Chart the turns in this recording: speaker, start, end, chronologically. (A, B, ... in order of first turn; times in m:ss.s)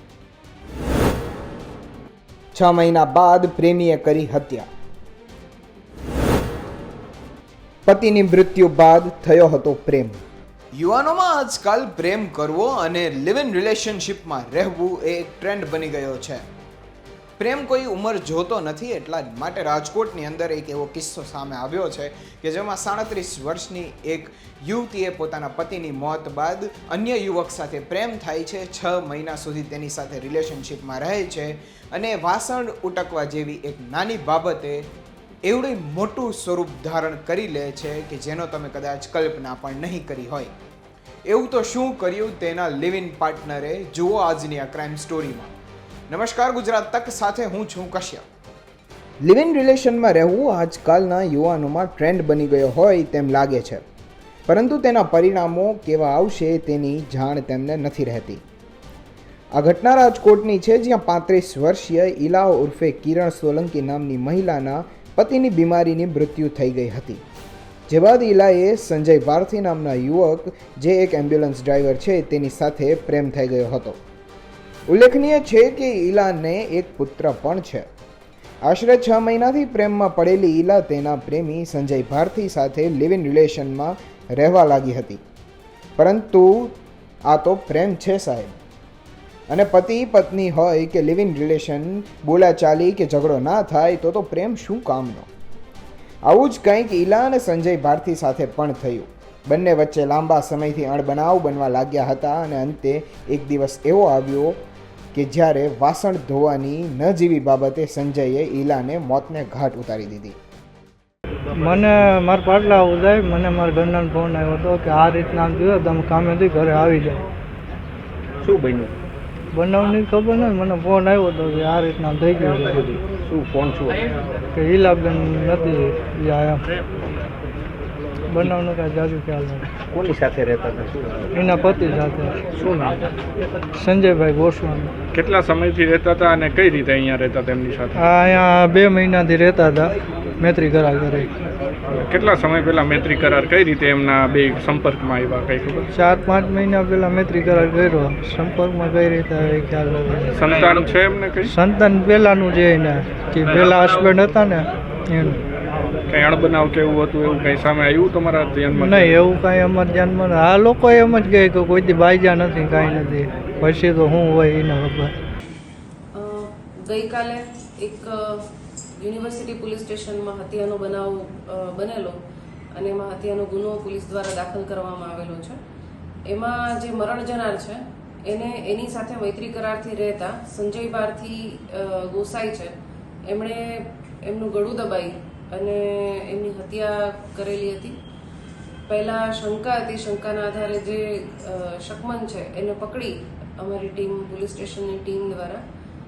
0:02.5-0:04.7 A
0:07.9-0:10.2 A
0:10.7-0:16.5 A
0:17.4-0:34.9 A
0:35.4-0:40.5 A
0:41.3-0:45.5 A
0:46.1-0:48.3 A
0:49.2-0:53.8 A
0:54.5-0:58.4 A
0:59.6-1:07.2 A
1:07.9-1:14.0 A
1:14.9-1:17.9 A
1:18.6-1:25.2 A
1:26.0-1:28.6 A
1:29.5-1:35.3 A
1:36.3-1:44.6 A
1:45.1-1:50.4 A
1:51.6-1:57.2 B
1:58.4-1:58.9 C
1:59.5-2:02.9 B
2:02.8-2:04.0 C
2:04.6-2:06.6 B
2:08.3-2:09.7 B
2:09.8-2:11.3 C
2:11.3-2:12.4 B
2:12.6-2:12.9 C
2:13.8-2:14.9 B
2:15.1-2:18.0 D
2:17.9-2:21.3 B
2:22.0-2:25.9 D
2:25.9-2:30.5 B
2:30.3-2:31.6 D
2:31.4-2:35.4 B
2:36.1-2:39.2 D
2:38.8-2:45.2 B
2:46.1-2:52.2 E
2:52.7-2:55.6 E
2:56.3-3:02.7 E
3:03.3-3:08.0 E
3:08.9-3:15.6 E